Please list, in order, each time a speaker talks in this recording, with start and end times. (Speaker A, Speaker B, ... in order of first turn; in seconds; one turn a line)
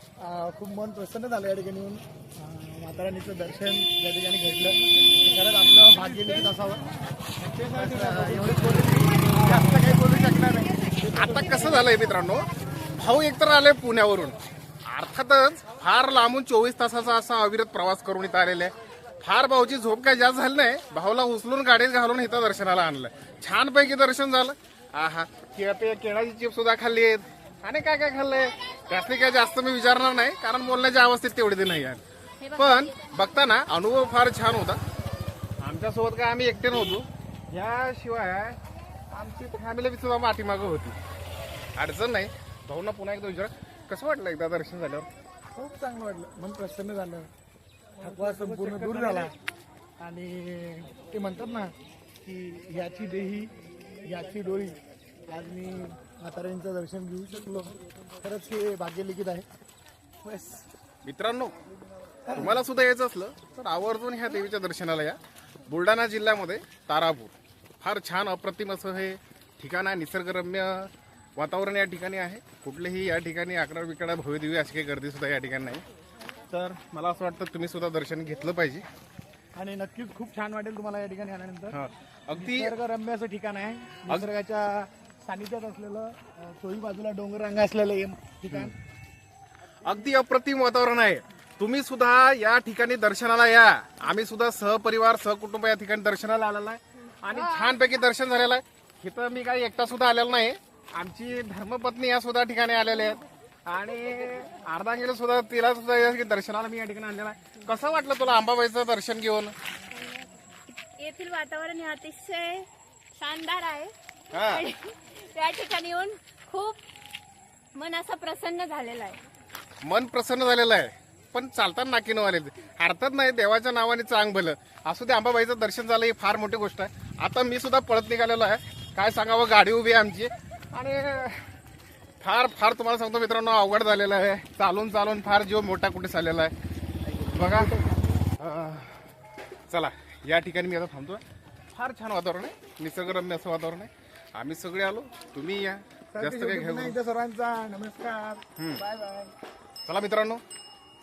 Speaker A: 0.2-6.9
Speaker A: 7.4-11.9
Speaker B: 11.1-12.4
Speaker B: 13.0-34.8
Speaker B: 35.6-38.6
Speaker B: 39.1-41.0
Speaker B: 41.8-45.1
Speaker A: 45.5-47.3
Speaker A: 48.0-49.3
Speaker B: 48.0-49.3
Speaker A: 50.0-51.7
Speaker A: 52.2-59.5
Speaker A: 60.2-60.7
Speaker B: 61.0-61.5
Speaker B: 62.3-75.8
Speaker B: 76.5-78.8
Speaker A: 79.5-81.8
Speaker B: 81.7-82.7
Speaker A: 82.3-88.8
Speaker B: 89.8-109.5
Speaker C: 109.9-110.2
Speaker C: 111.0-113.9
Speaker B: 114.3-114.7
Speaker C: 114.5-116.8
Speaker C: 117.7-119.2
Speaker B: 119.8-131.4
Speaker B: 132.2-136.5
Speaker A: 137.1-138.2
Speaker B: 137.3-137.7
Speaker B: 138.4-139.0
Speaker B: 139.7-147.0
Speaker A: 146.1-149.3
Speaker B: 148.6-148.8
Speaker B: 149.8-150.4